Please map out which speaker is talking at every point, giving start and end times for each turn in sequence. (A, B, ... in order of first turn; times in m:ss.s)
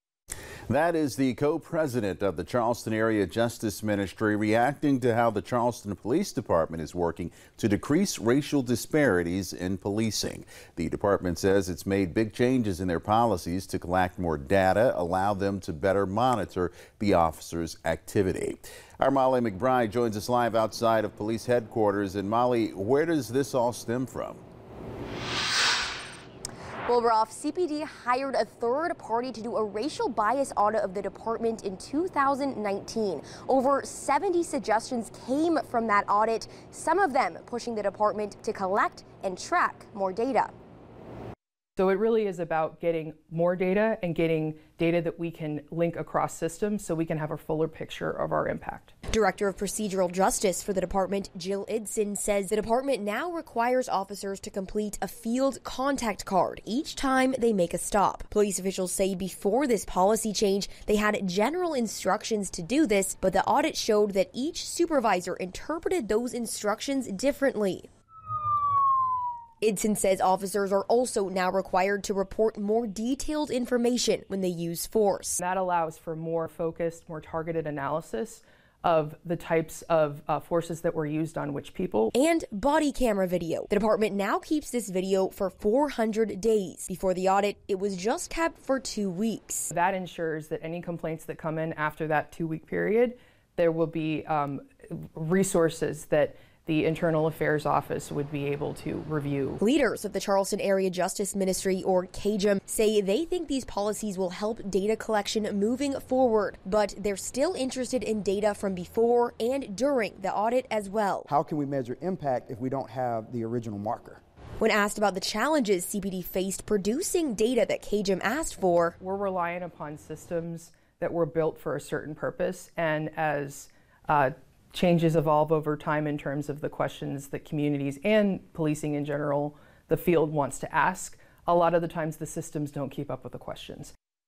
0:00.7-0:24.4 A
0:26.9-0:40.5 B
0:41.8-0:48.9 C
0:49.1-1:07.9 B
1:09.6-1:15.4 B
1:15.4-1:22.1 C
1:22.2-1:29.7 B
1:29.7-1:39.6 C
1:39.6-1:51.3 B
1:51.3-1:54.2 D
1:54.6-1:59.0 B
1:59.0-2:13.9 C